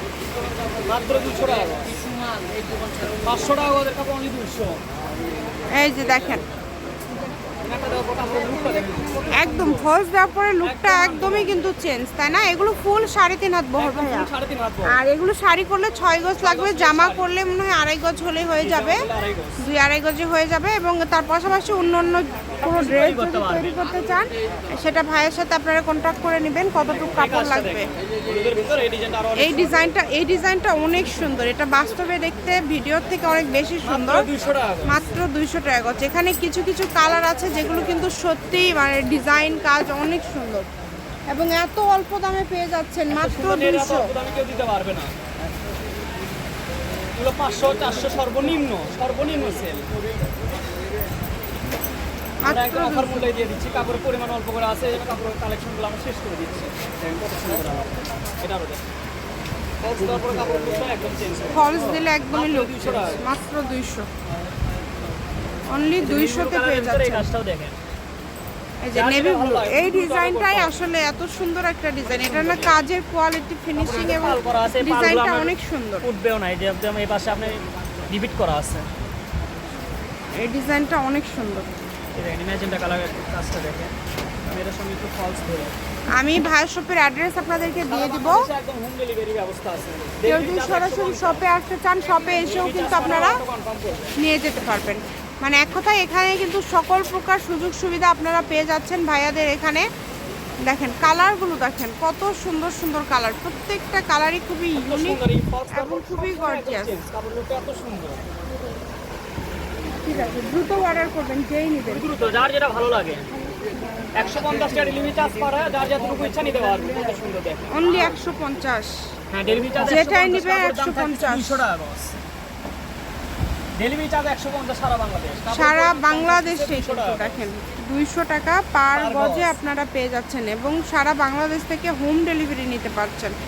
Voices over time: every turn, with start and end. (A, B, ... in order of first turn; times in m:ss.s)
0:00.8-0:02.0 A
0:03.2-0:04.8 A
0:05.7-0:06.4 B
0:07.6-0:09.9 A
0:09.3-0:14.3 B
0:10.6-0:11.6 A
0:13.8-0:15.0 A
0:14.9-0:19.0 B
0:16.4-0:17.3 A
0:18.6-0:19.6 A
0:19.6-0:27.9 B
0:22.6-0:23.7 A
0:26.9-0:29.9 A
0:29.4-0:34.3 B
0:33.8-0:35.0 A
0:34.8-0:40.7 B
0:41.3-0:44.1 B
0:43.1-0:45.1 A
0:47.2-0:49.9 A
0:52.4-0:53.3 B
0:52.4-0:58.9 A
0:59.8-1:03.2 A
1:01.5-1:04.1 B
1:05.7-1:07.3 B
1:06.0-1:07.8 A
1:08.8-1:16.1 B
1:08.9-1:10.8 A
1:12.0-1:12.8 A
1:13.8-1:18.9 A
1:20.4-1:21.7 B
1:22.2-1:23.9 A
1:24.5-1:25.8 A
1:26.1-1:28.5 B
1:27.9-1:31.5 A
1:30.2-1:33.4 B
1:32.3-1:34.2 A
1:34.2-1:39.9 B
1:40.6-1:47.0 B
1:44.8-1:48.3 A
1:50.0-1:52.1 B
1:51.9-1:53.3 A
1:54.2-1:58.2 A
1:57.7-1:58.9 B
1:59.3-2:02.2 A
1:59.8-2:01.6 B
2:03.8-2:07.4 A
2:05.5-2:13.3 B
2:08.9-2:09.6 A